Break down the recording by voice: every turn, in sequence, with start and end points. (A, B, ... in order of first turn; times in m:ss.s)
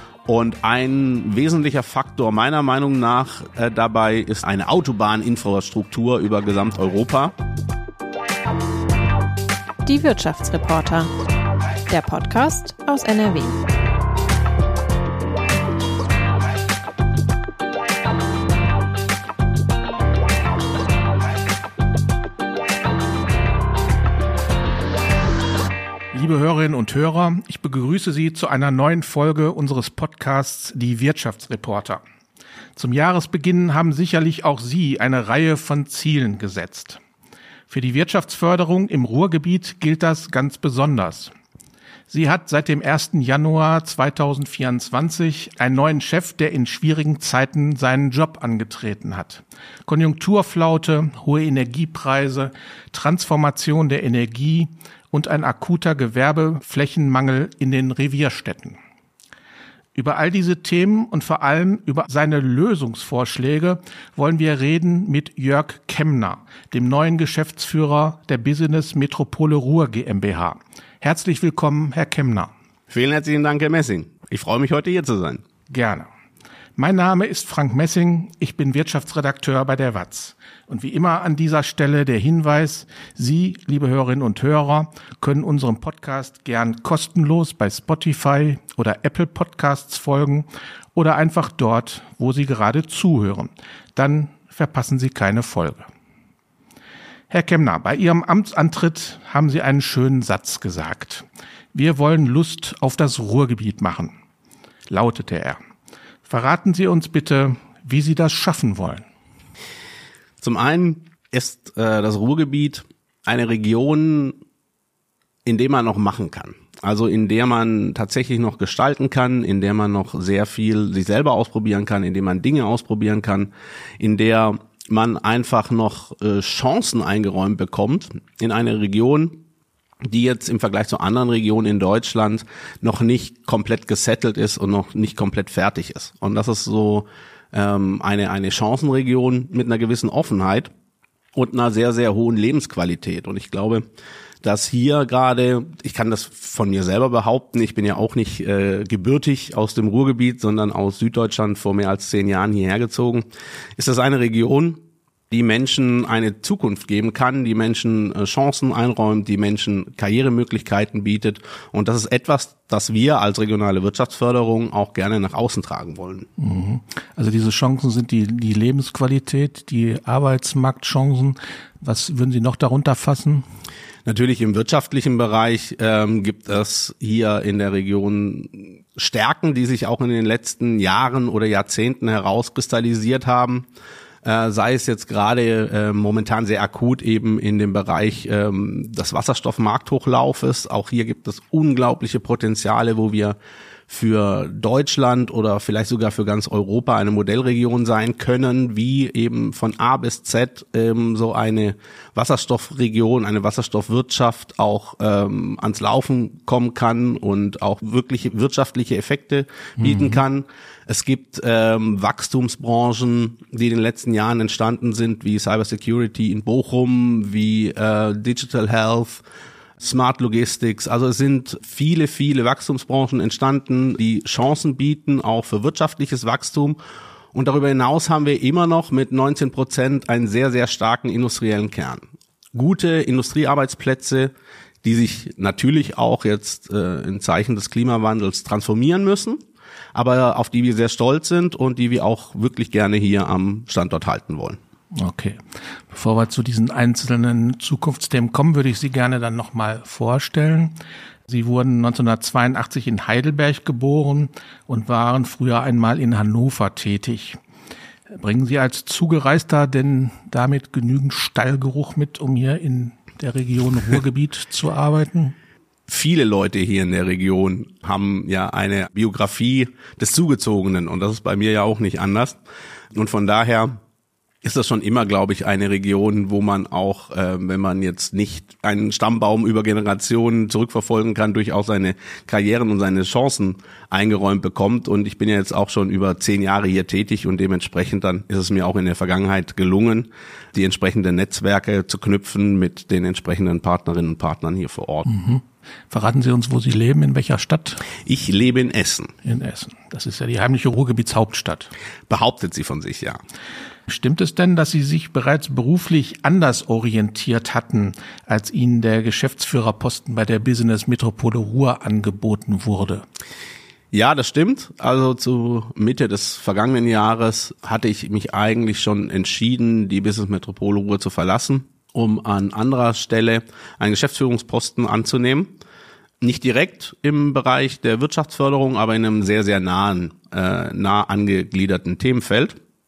0:00.3-0:07.3 A
0:09.8-0:11.1 B
0:11.9-0:13.6 B
0:26.1-0:32.0 C
0:32.8-0:37.0 C
0:37.7-0:41.3 C
0:42.1-0:58.8 C
1:00.0-1:12.5 C
1:12.9-1:15.4 A
1:15.7-1:16.1 C
1:16.8-1:35.9 C
1:37.3-1:44.1 C
1:44.9-1:45.6 C
1:46.3-1:49.0 C
1:50.4-1:54.4 A
1:55.5-2:09.4 A
2:10.1-2:20.7 A
2:21.4-2:23.8 A
2:24.4-2:33.3 A
2:33.8-2:34.8 A
2:35.3-2:46.3 A
2:46.4-2:53.4 C
2:54.1-3:03.7 A
3:04.2-3:13.4 A
3:13.9-3:39.2 A
3:29.8-3:30.2 C
3:39.8-3:46.8 A
3:47.3-3:52.0 A
3:52.6-3:54.3 A
3:54.8-3:59.4 A
3:59.9-4:04.6 A
4:04.9-4:10.8 C
4:11.3-4:17.4 C
4:18.1-4:25.4 C
4:25.9-4:32.4 A
4:32.9-4:33.8 A
4:34.4-4:55.1 A
4:55.0-4:57.9 C
4:58.0-4:59.1 A
4:59.2-5:01.7 C
5:02.1-5:03.2 A
5:03.9-5:13.0 C
5:13.9-5:25.6 A
5:26.2-5:32.6 A